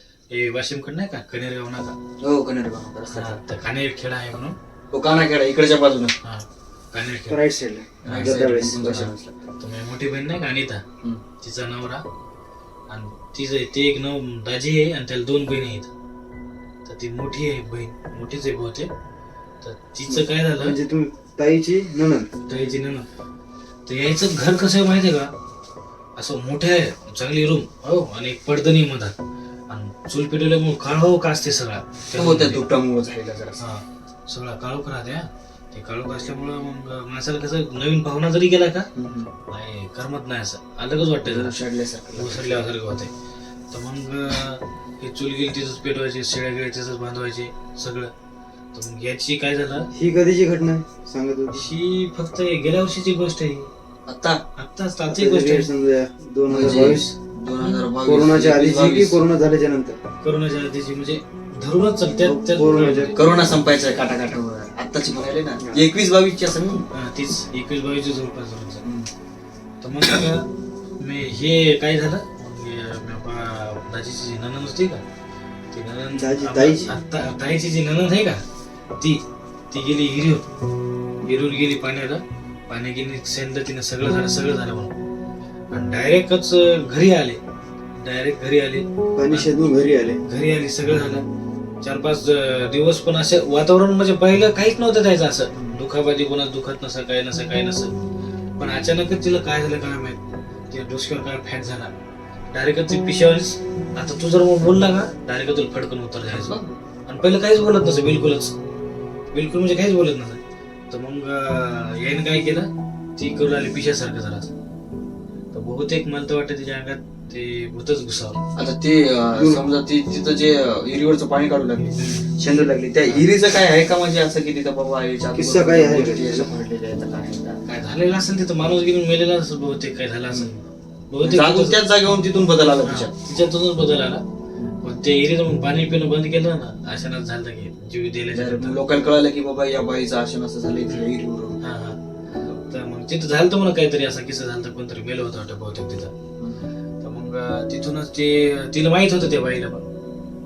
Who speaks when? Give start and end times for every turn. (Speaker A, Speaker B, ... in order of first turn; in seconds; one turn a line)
Speaker A: 0.3-1.9
Speaker B: 2.2-3.4
Speaker A: 3.1-4.5
Speaker B: 4.9-6.1
Speaker A: 6.2-7.4
Speaker C: 7.3-9.1
Speaker A: 8.0-8.4
Speaker B: 8.1-9.3
Speaker A: 9.6-10.8
Speaker A: 11.4-12.0
Speaker A: 12.9-15.9
Speaker A: 16.8-18.9
Speaker A: 19.6-20.8
Speaker C: 20.6-22.3
Speaker A: 22.5-23.1
Speaker A: 23.9-25.3
Speaker A: 26.2-29.1
Speaker A: 29.7-32.7
Speaker B: 32.1-33.6
Speaker A: 33.6-38.9
Speaker B: 39.0-39.3
Speaker A: 39.5-41.5
Speaker B: 41.2-42.7
Speaker A: 42.1-43.1
Speaker A: 43.7-48.1
Speaker A: 48.7-49.9
Speaker C: 49.9-51.6
Speaker A: 51.5-53.7
Speaker B: 54.1-54.4
Speaker A: 54.6-55.7
Speaker C: 55.1-57.1
Speaker B: 56.5-59.2
Speaker A: 56.5-57.1
Speaker C: 58.0-60.0
Speaker A: 60.2-63.2
Speaker C: 62.2-63.1
Speaker B: 63.1-66.8
Speaker A: 66.9-68.8
Speaker B: 68.8-69.1
Speaker A: 69.8-70.5
Speaker A: 71.0-75.0
Speaker A: 75.7-78.4
Speaker C: 76.1-76.9
Speaker A: 79.0-80.5
Speaker A: 81.2-84.9
Speaker A: 85.7-87.4
Speaker A: 88.0-89.5
Speaker C: 89.2-90.2
Speaker A: 90.2-91.2
Speaker A: 91.8-97.9
Speaker A: 98.6-100.2
Speaker A: 100.7-101.9
Speaker A: 102.5-108.5
Speaker B: 106.3-106.8
Speaker A: 109.3-114.5
Speaker A: 115.5-118.4
Speaker B: 118.5-127.6
Speaker C: 119.3-119.6
Speaker A: 121.9-122.3
Speaker C: 125.3-126.5
Speaker A: 127.7-130.5
Speaker B: 130.3-130.6
Speaker A: 131.1-131.8
Speaker B: 131.2-133.1
Speaker A: 132.8-134.2
Speaker A: 134.8-138.8
Speaker B: 138.3-141.6
Speaker A: 141.6-142.0
Speaker A: 142.6-146.1
Speaker B: 146.4-146.7
Speaker A: 147.0-149.8